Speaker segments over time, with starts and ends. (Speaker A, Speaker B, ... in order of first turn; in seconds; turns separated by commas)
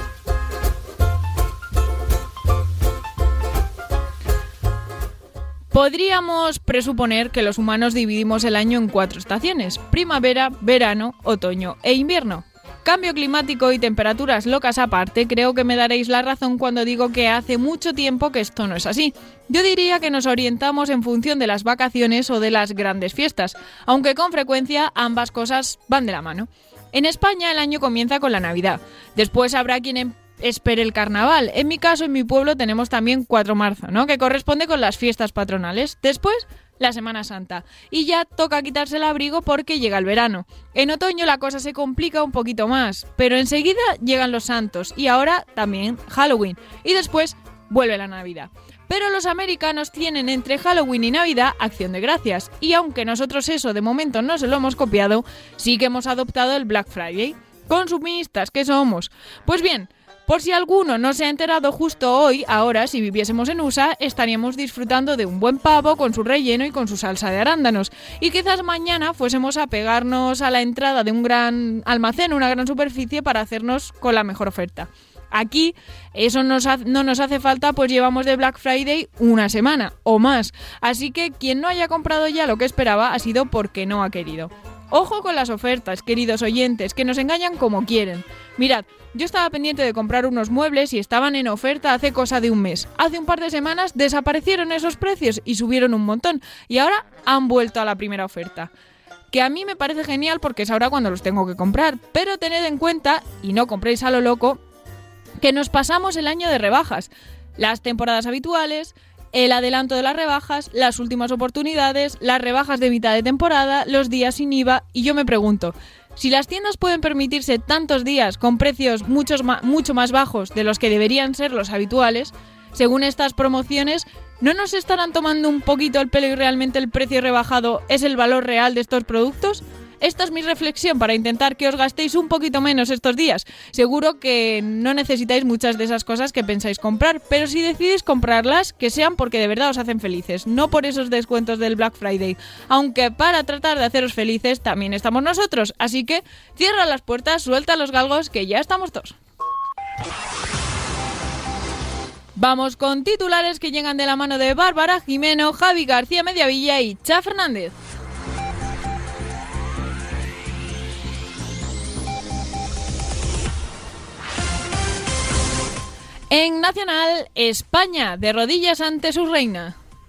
Speaker A: 5.7-98.7, Speaker A: 99.3-104.6, Speaker A: 105.4-149.2, Speaker A: 152.4-157.7, Speaker A: 166.3-169.8